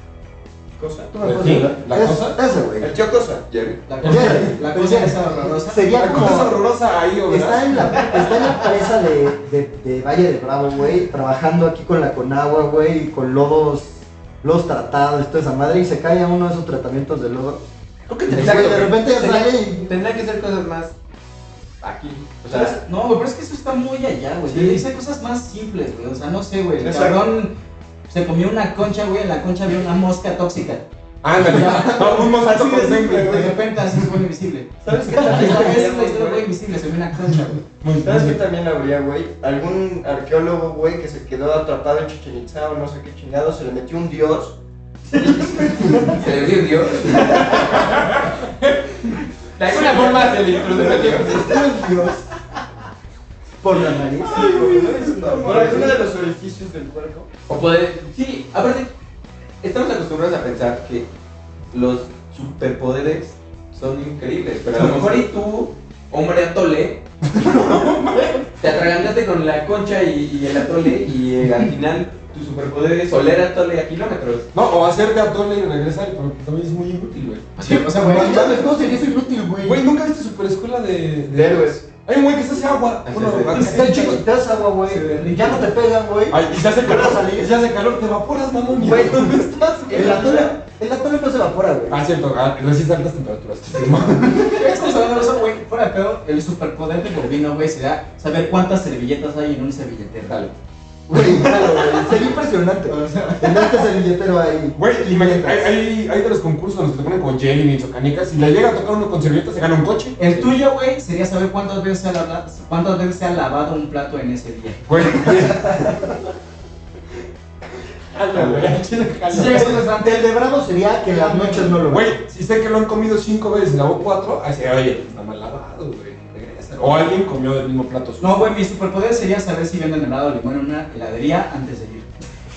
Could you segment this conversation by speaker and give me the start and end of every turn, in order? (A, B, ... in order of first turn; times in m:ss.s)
0:00.8-0:01.2 A
0:01.1-0:02.9 B
0:01.2-0:02.4 C
0:02.8-0:03.4 A
0:03.5-0:03.8 D
0:03.9-0:05.9 E
0:04.0-0:04.6 C
0:04.0-0:06.6 B
0:05.9-0:08.0 C
0:07.3-0:17.7 B
0:18.1-0:18.8 C
0:18.3-0:20.0 B
0:18.3-0:21.0 D
0:21.8-0:22.8 D
0:22.5-0:27.5 E
0:24.5-0:24.8 D
0:26.8-0:27.3 A
0:28.1-0:37.6 E
0:31.2-0:33.6 C
0:32.8-0:33.4 A
0:34.8-0:36.5 A
0:35.2-0:35.7 C
0:37.6-0:38.4 C
0:38.0-0:44.6 A
0:45.1-0:46.5 A
0:46.1-0:47.6 D
0:47.0-0:47.4 A
0:47.2-0:50.9 C
0:49.6-0:51.6 D
0:50.3-0:51.4 A
0:50.7-0:52.2 B
0:53.6-0:54.8 B
0:54.3-0:57.3 A
0:54.3-0:55.9 C
0:55.1-0:55.8 E
0:57.5-0:58.9 D
0:59.6-1:01.1 D
1:01.7-1:07.0 D
1:07.4-1:08.4 C
1:07.5-1:07.8 B
1:08.6-1:14.5 D
1:14.5-1:17.5 C
1:17.6-1:17.9 D
1:17.6-1:18.8 E
1:17.9-1:19.8 B
1:19.6-1:24.2 C
1:21.3-1:21.8 A
1:23.0-1:23.8 D
1:23.5-1:27.5 B
1:24.9-1:25.7 E
1:26.3-1:29.5 C
1:28.8-1:30.6 A
1:29.9-1:32.0 B
1:31.9-1:34.8 C
1:34.2-1:40.5 E
1:41.1-1:45.7 B
1:42.9-1:43.7 E
1:44.7-1:50.6 C
1:50.2-1:55.4 E
1:54.9-1:56.2 C
1:58.1-1:59.8 C
1:58.3-1:58.7 D
1:59.3-1:59.8 E
1:59.3-2:02.1 B
2:01.1-2:01.8 E
2:01.8-2:08.5 C
2:08.2-2:12.1 E